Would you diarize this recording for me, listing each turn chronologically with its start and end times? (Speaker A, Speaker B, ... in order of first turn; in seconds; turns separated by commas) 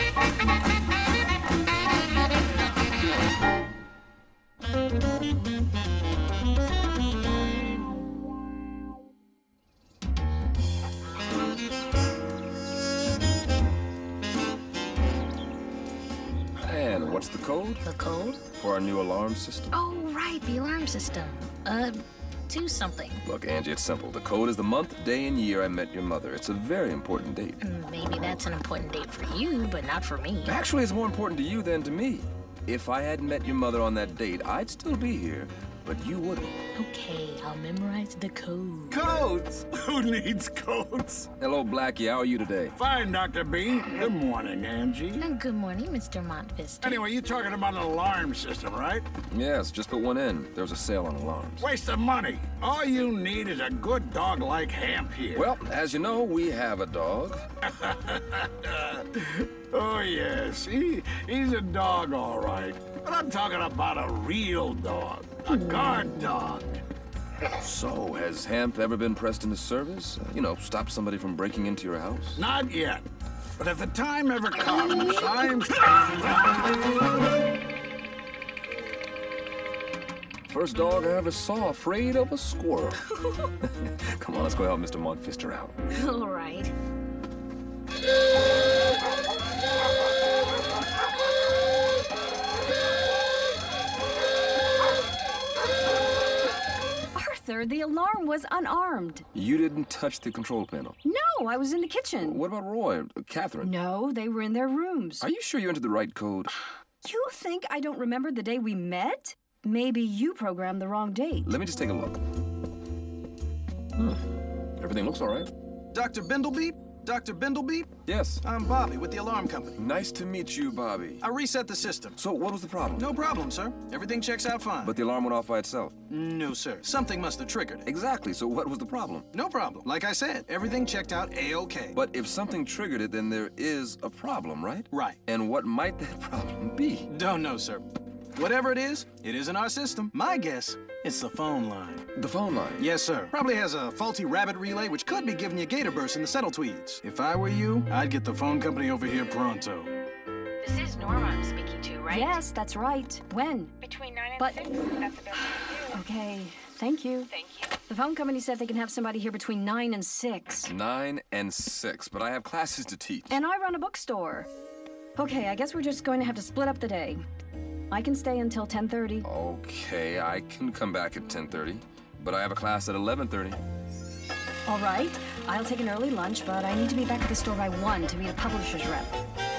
Speaker A: 16.6-17.8, Speaker B: 17.8-18.4, Speaker A: 18.4-19.7, Speaker B: 19.7-23.2, Speaker A: 23.2-27.6, Speaker B: 27.6-30.6, Speaker A: 30.4-36.6, Speaker B: 36.8-39.0, Speaker C: 38.9-41.3, Speaker A: 41.4-42.8, Speaker C: 42.8-45.3, Speaker B: 45.2-47.0, Speaker C: 46.8-49.1, Speaker A: 49.3-51.7, Speaker C: 51.6-55.5, Speaker A: 55.3-57.5, Speaker C: 57.8-66.8, Speaker A: 67.6-72.4, Speaker C: 72.3-73.0, Speaker C: 73.6-76.4, Speaker A: 80.5-83.0, Speaker A: 83.6-85.8, Speaker B: 85.9-86.7, Speaker D: 97.2-99.3, Speaker A: 99.3-101.0, Speaker D: 101.0-102.4, Speaker A: 102.2-103.7, Speaker D: 103.6-105.3, Speaker A: 105.2-106.5, Speaker D: 107.0-111.5, Speaker A: 111.5-112.2, Speaker A: 114.8-115.5, Speaker E: 115.9-119.8, Speaker A: 118.1-118.4, Speaker A: 119.8-121.2, Speaker E: 121.2-122.2, Speaker A: 122.2-123.1, Speaker E: 123.0-125.0, Speaker A: 124.8-126.0, Speaker E: 126.1-127.9, Speaker A: 127.9-129.3, Speaker E: 129.3-132.0, Speaker A: 132.0-137.1, Speaker E: 134.9-135.2, Speaker E: 137.1-137.8, Speaker E: 138.3-142.1, Speaker A: 142.2-142.8, Speaker E: 142.8-149.9, Speaker F: 150.7-151.1, Speaker F: 151.7-152.3, Speaker D: 152.1-153.8, Speaker F: 153.8-156.0, Speaker D: 154.4-154.6, Speaker D: 155.9-157.3, Speaker F: 157.3-157.7, Speaker D: 157.8-160.7, Speaker A: 160.7-163.4, Speaker D: 163.3-164.5, Speaker D: 165.2-167.2, Speaker D: 167.9-169.3, Speaker A: 169.2-173.6, Speaker D: 174.7-179.2